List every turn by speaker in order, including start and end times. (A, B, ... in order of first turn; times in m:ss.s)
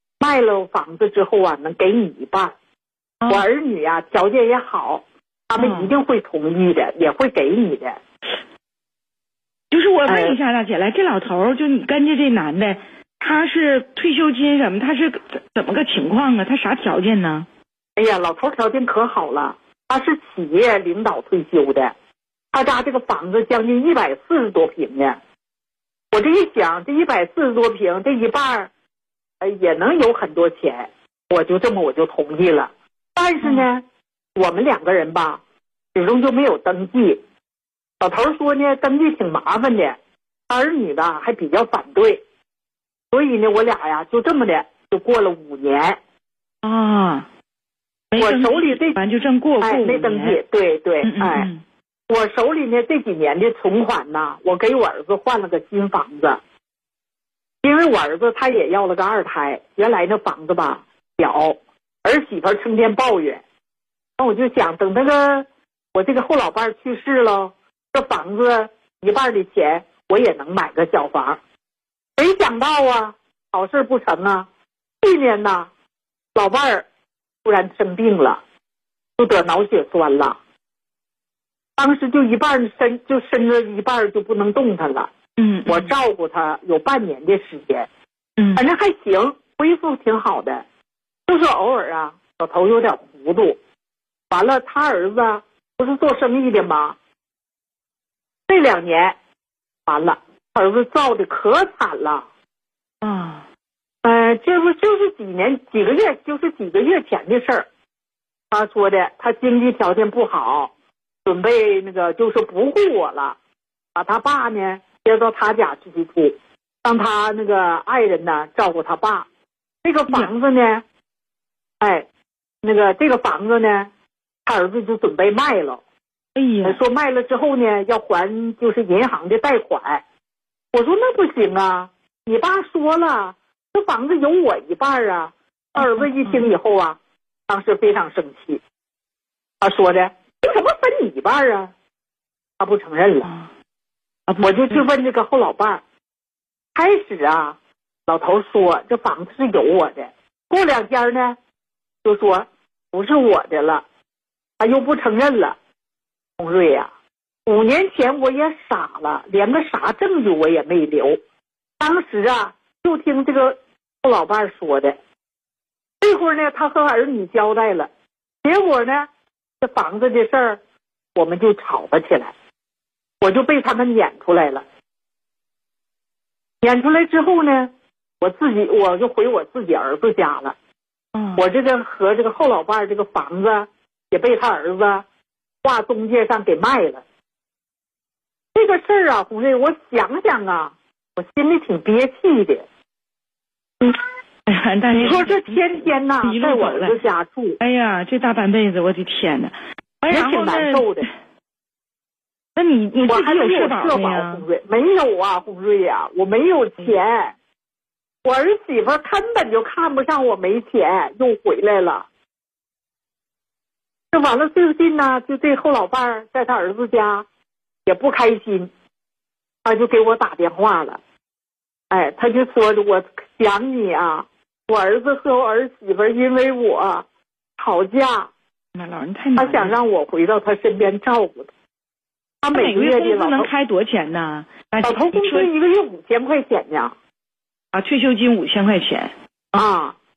0:00.2-0:02.5 A
0:03.2-0:03.5 B
0:03.3-0:08.0 A
0:05.6-0:05.9 B
0:09.7-0:17.5 B
0:10.1-0:10.4 A
0:18.0-0:21.9 A
0:22.5-0:25.2 A
0:26.1-0:28.7 A
0:29.4-0:33.8 A
0:33.4-0:33.7 B
0:34.4-0:35.4 A
0:35.9-0:37.2 A
0:38.0-0:40.0 A
0:40.5-0:42.2 A
0:43.1-0:46.0 A
0:46.6-0:47.3 B
0:48.1-0:50.4 B
0:48.2-0:49.0 A
0:49.6-0:51.5 A
0:51.0-0:51.6 B
0:52.1-0:56.4 A
0:57.6-1:03.4 A
1:04.2-1:11.4 A
1:12.2-1:14.5 A
1:15.0-1:15.7 A
1:16.3-1:16.8 A
1:17.4-1:18.4 A
1:19.2-1:20.4 A
1:21.8-1:25.1 A
1:25.4-1:25.9 B
1:25.7-1:27.9 A
1:28.4-1:28.6 B
1:28.6-1:30.6 A
1:31.3-1:33.6 A
1:34.3-1:37.0 A
1:38.5-1:39.2 A
1:39.8-1:42.2 A
1:43.0-1:43.4 B
1:44.0-1:47.7 A
1:48.5-1:50.7 A
1:51.2-1:53.4 A
1:53.9-1:59.3 A
1:59.8-2:00.8 A
2:01.8-2:02.0 A
2:02.6-2:03.9 A
2:04.4-2:05.8 A
2:06.4-2:06.8 B
2:06.6-2:10.0 A
2:10.7-2:18.6 A
2:15.8-2:16.4 B
2:19.6-2:21.7 A
2:22.6-2:23.3 A
2:23.2-2:23.5 B
2:24.3-2:24.8 B
2:24.4-2:25.8 A
2:26.7-2:31.4 A
2:32.0-2:33.8 A
2:34.6-2:35.6 A
2:36.4-2:36.9 A
2:37.4-2:41.2 A
2:41.8-2:45.0 A
2:46.0-2:47.9 A
2:48.4-2:49.1 A
2:49.6-2:50.6 A
2:51.1-2:52.3 A
2:53.2-2:54.6 A
2:56.6-3:00.5 A
3:01.1-3:01.4 B
3:01.4-3:05.0 A
3:05.6-3:07.0 A
3:08.5-3:12.6 A
3:14.4-3:17.0 B
3:14.9-3:17.6 A
3:17.6-3:21.0 B
3:20.1-3:21.1 A
3:22.5-3:24.4 B
3:23.1-3:27.3 A
3:28.2-3:32.1 A
3:34.1-3:37.2 A
3:37.8-3:38.7 A
3:39.6-3:41.0 A
3:41.9-3:47.0 A
3:47.6-3:48.3 A
3:48.7-3:49.7 B
3:49.4-3:51.5 A
3:52.4-3:53.5 A
3:52.5-3:55.5 B
3:54.8-3:56.9 A
3:57.7-3:59.1 B
3:59.5-3:59.9 A